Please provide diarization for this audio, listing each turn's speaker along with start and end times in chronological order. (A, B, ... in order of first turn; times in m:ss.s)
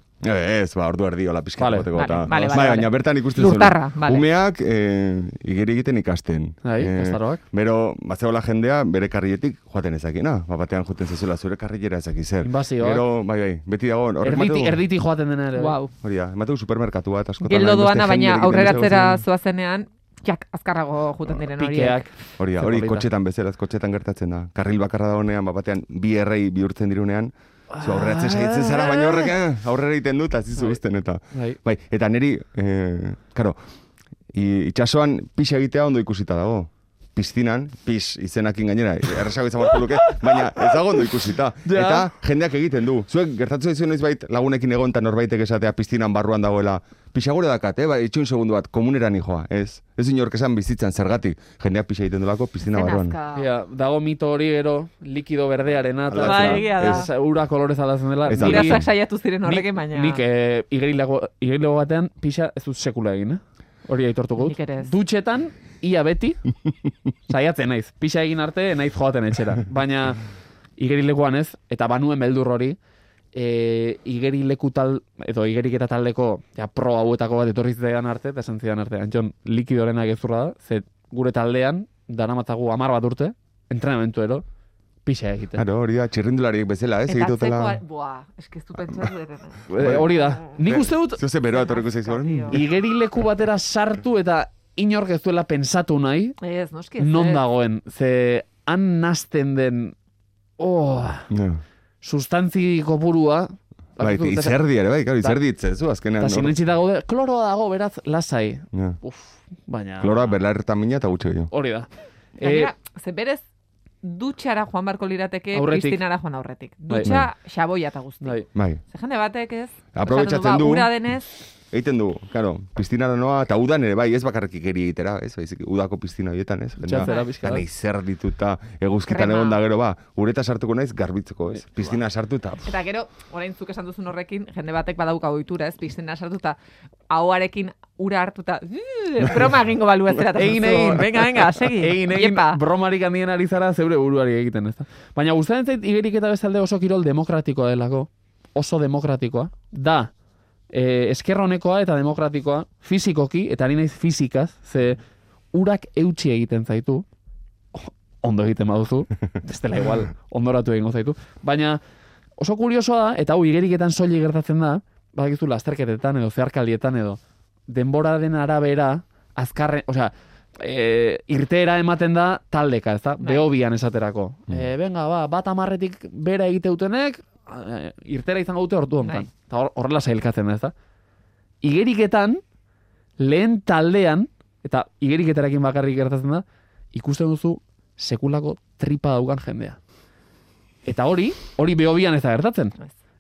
0:00.2-0:14.8 A
0:01.6-0:02.7 B
0:02.0-0:04.3 C
0:06.6-0:07.4 B
0:12.4-0:13.1 B
0:14.2-0:15.8 B
0:15.6-0:15.9 C
0:16.0-0:19.2 A
0:17.4-0:22.1 C
0:21.6-0:23.1 B
0:22.4-0:33.6 A
0:27.7-0:29.4 B
0:30.6-0:30.8 B
0:31.3-0:31.6 B
0:34.3-0:53.2 A
0:39.7-0:41.1 B
0:41.6-0:42.1 B
0:52.6-0:53.5 C
0:53.3-0:58.8 B
0:56.1-0:57.1 A
0:56.2-0:57.1 C
0:58.3-0:58.9 A
0:58.3-1:00.2 C
0:59.4-1:06.4 B
1:04.4-1:05.0 C
1:07.3-1:10.2 B
1:10.8-1:12.8 B
1:13.3-1:24.4 B
1:25.0-1:25.6 B
1:25.5-1:27.8 A
1:27.1-1:30.5 C
1:29.7-1:31.2 B
1:29.8-1:30.1 A
1:30.6-1:32.7 A
1:31.5-1:32.6 C
1:32.5-1:36.4 B
1:36.4-1:37.4 C
1:37.0-1:40.0 B
1:40.6-1:41.3 B
1:41.3-1:41.6 A
1:42.0-1:44.6 B
1:44.0-1:46.6 A
1:46.2-1:50.4 B
1:48.7-1:49.0 A
1:50.0-1:51.5 A
1:51.5-1:52.7 B
1:52.4-1:53.4 C
1:54.0-2:01.4 C
1:55.5-1:56.0 B
1:56.9-1:57.2 B
1:57.0-1:57.3 A
1:58.2-1:58.5 B
1:58.5-1:58.8 A
1:59.9-2:00.9 A
2:01.7-2:12.8 A
2:06.8-2:07.6 B
2:07.0-2:07.3 C
2:09.1-2:09.6 C
2:12.7-2:16.6 C
2:17.1-2:22.6 C
2:20.4-2:30.1 B
2:30.7-2:35.0 B
2:35.5-2:37.1 B
2:37.7-2:41.8 B
2:42.4-3:00.7 B
3:01.6-3:02.4 B
3:03.2-3:09.8 B
3:10.8-3:12.8 B